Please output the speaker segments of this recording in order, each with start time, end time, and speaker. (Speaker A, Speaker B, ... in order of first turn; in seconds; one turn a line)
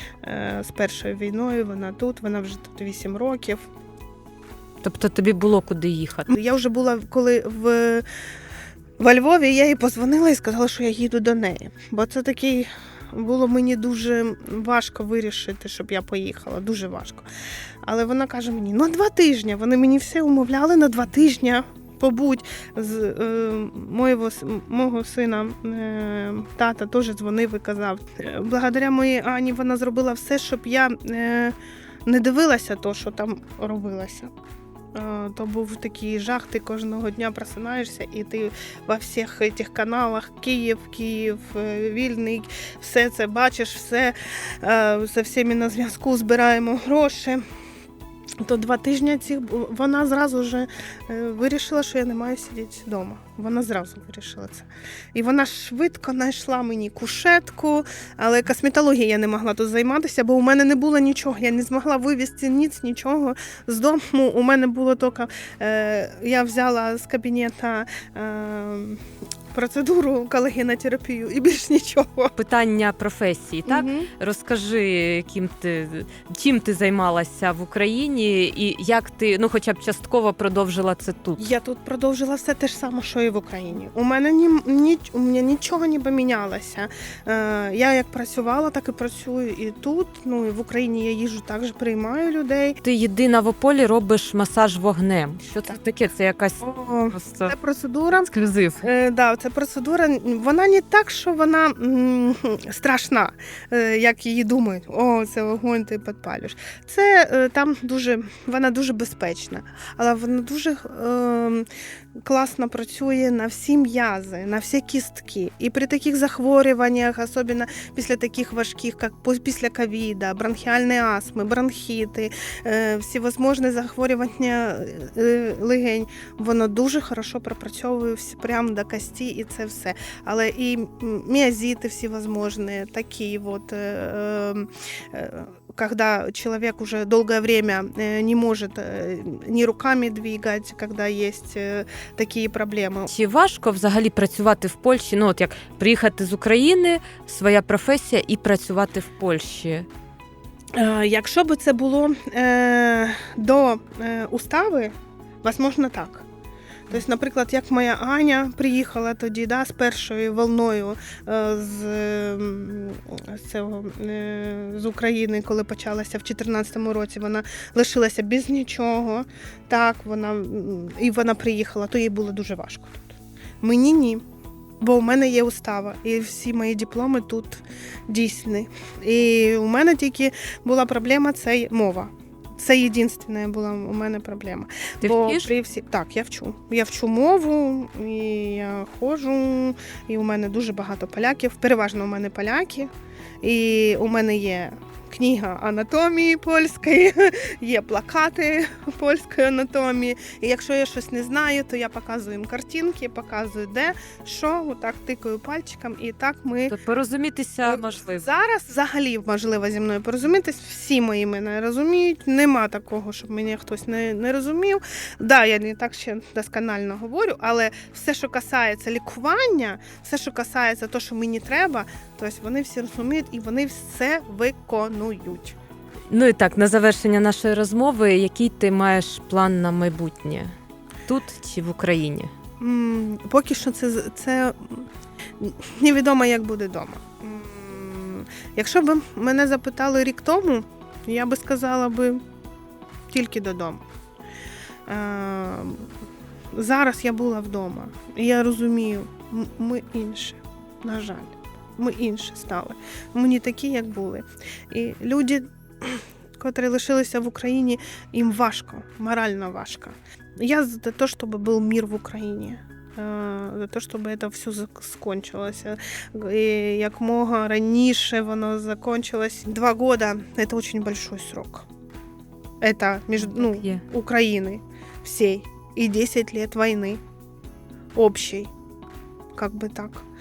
Speaker A: 0.2-3.6
Speaker B: 4.8-6.3
Speaker A: 6.3-8.1
Speaker A: 9.0-17.3
Speaker A: 17.8-34.3
Speaker A: 34.9-47.4
Speaker A: 48.4-72.3
Speaker B: 72.4-81.4
Speaker A: 73.7-74.1
Speaker A: 81.4-92.8
Speaker B: 92.8-97.5
Speaker A: 96.6-98.3
Speaker B: 98.2-98.9
Speaker A: 98.8-111.7
Speaker A: 112.2-143.1
Speaker B: 143.1-149.9
Speaker A: 150.8-156.3
Speaker A: 156.9-174.2
Speaker A: 174.8-192.9
Speaker B: 185.0-185.5
Speaker A: 193.4-206.8
Speaker B: 206.7-208.3
Speaker A: 207.6-225.6
Speaker B: 226.1-230.6
Speaker B: 231.1-232.3
Speaker A: 232.6-234.9
Speaker A: 235.4-242.2
Speaker A: 243.1-243.8
Speaker A: 244.9-245.9
Speaker A: 246.5-271.7
Speaker A: 272.6-277.0
Speaker B: 273.2-273.8
Speaker A: 277.9-278.5
Speaker A: 279.4-280.1